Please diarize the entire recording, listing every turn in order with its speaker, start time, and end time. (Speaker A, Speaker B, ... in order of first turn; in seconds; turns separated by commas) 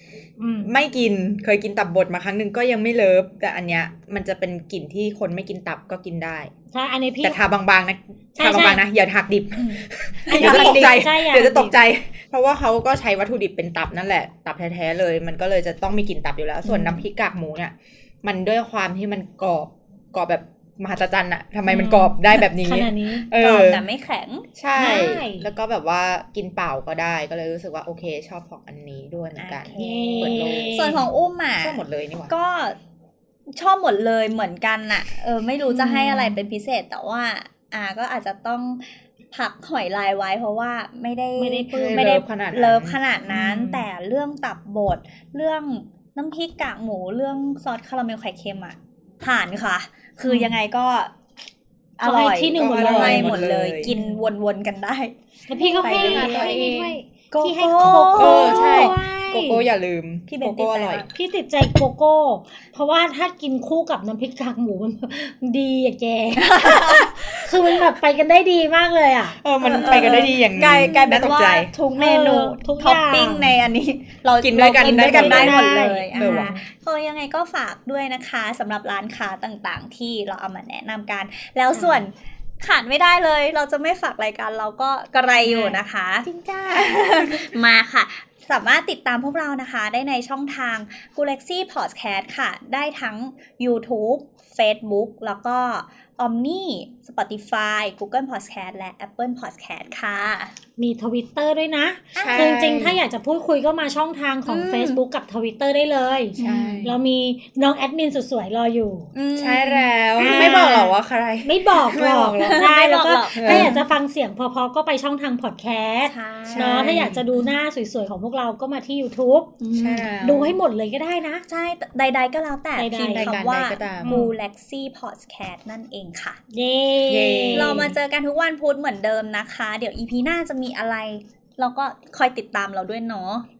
Speaker A: 0.4-0.7, Speaker B: 0.6-6.5, Speaker A: 6.7-7.4, Speaker B: 7.2-23.9, Speaker A: 8.4-8.8, Speaker C: 9.7-11.0, Speaker A: 10.3-11.8, Speaker A: 21.7-23.3, Speaker C: 23.3-24.5, Speaker B: 24.6-31.1, Speaker A: 24.8-25.5, Speaker C: 29.4-32.8, Speaker A: 29.8-31.0, Speaker B: 31.6-32.3, Speaker C: 33.5-38.8, Speaker A: 35.7-36.3, Speaker C: 39.3-51.1, Speaker A: 41.4-42.2, Speaker B: 41.7-43.0, Speaker A: 43.3-43.8, Speaker A: 50.3-50.5, Speaker C: 52.0-56.6, Speaker A: 52.0-54.2, Speaker B: 52.5-53.9, Speaker A: 55.5-59.7, Speaker B: 55.8-57.0, Speaker C: 57.3-59.0, Speaker B: 58.2-61.0, Speaker C: 60.3-61.1, Speaker A: 61.1-70.9, Speaker C: 66.3-67.1, Speaker B: 69.4-71.7, Speaker C: 69.6-100.5, Speaker A: 71.9-73.5, Speaker B: 74.4-76.6, Speaker A: 74.8-76.7, Speaker A: 85.4-85.8, Speaker B: 86.7-87.4, Speaker A: 100.8-109.1, Speaker C: 102.2-102.8, Speaker B: 102.2-103.0, Speaker C: 104.5-105.0, Speaker C: 106.4-106.9, Speaker B: 106.4-107.0, Speaker C: 109.1-110.9, Speaker B: 109.3-112.7, Speaker A: 110.2-110.9, Speaker A: 111.4-119.5, Speaker C: 112.4-113.8, Speaker B: 113.4-113.8, Speaker C: 116.0-117.5, Speaker B: 116.5-117.2, Speaker C: 119.6-120.1, Speaker B: 119.7-120.6, Speaker A: 120.2-121.4, Speaker C: 121.5-126.4, Speaker A: 122.8-123.3, Speaker B: 123.2-124.2, Speaker A: 124.0-124.3, Speaker A: 126.5-127.9, Speaker B: 127.1-128.0, Speaker C: 127.5-133.5